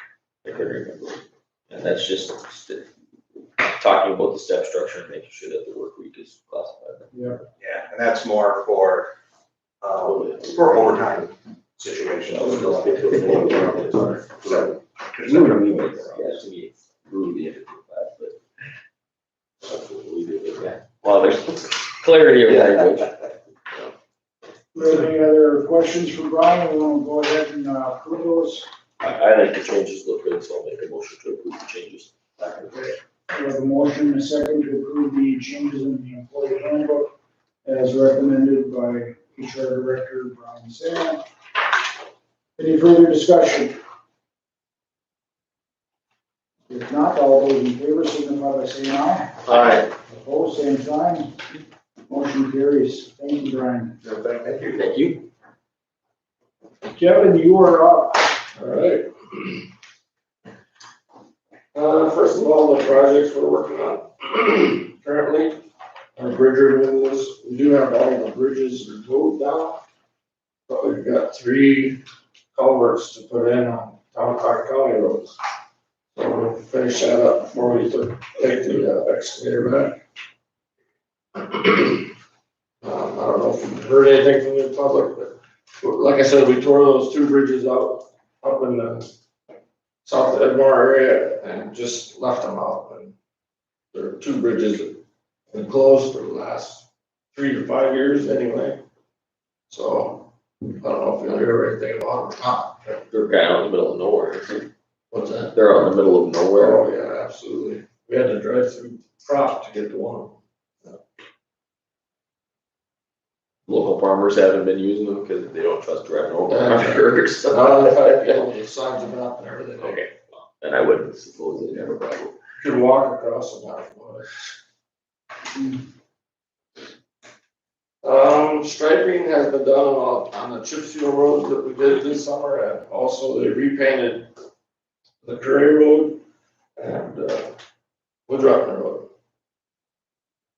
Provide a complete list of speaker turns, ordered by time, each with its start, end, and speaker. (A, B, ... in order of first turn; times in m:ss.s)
0:00.4-0:02.8 A
0:03.6-0:07.1 A
0:07.1-0:07.4 B
0:07.6-0:09.1 C
0:09.8-0:16.4 C
0:10.0-0:11.0 A
0:12.3-0:13.9 A
0:15.2-0:18.4 A
0:20.4-0:23.1 A
0:24.7-0:28.6 B
0:29.0-0:32.1 A
0:32.5-0:37.1 B
0:37.6-0:41.2 B
0:42.6-0:43.7 B
0:46.7-0:51.3 B
0:49.4-0:49.9 A
0:52.1-0:54.0 B
0:54.0-0:54.8 C
0:54.7-0:55.2 A
0:56.8-0:58.4 B
0:58.5-0:59.6 D
1:01.7-1:05.6 D
1:06.2-1:09.8 D
1:10.7-1:12.0 D
1:12.5-1:15.4 D
1:16.1-1:20.0 D
1:21.4-1:22.1 D
1:22.8-1:29.1 D
1:30.0-1:33.1 D
1:33.9-1:35.0 D
1:35.5-1:38.8 D
1:39.7-1:40.3 D
1:40.8-1:43.0 D
1:43.1-1:44.7 A
1:45.1-1:45.6 D
1:45.5-1:46.8 A
1:46.6-1:51.0 D
1:53.7-1:58.4 A
1:56.5-2:00.0 D
1:59.8-2:02.3 A
2:02.6-2:04.4 D
2:08.0-2:14.3 D
2:15.2-2:16.2 D
2:16.8-2:17.5 D
2:18.3-2:19.1 D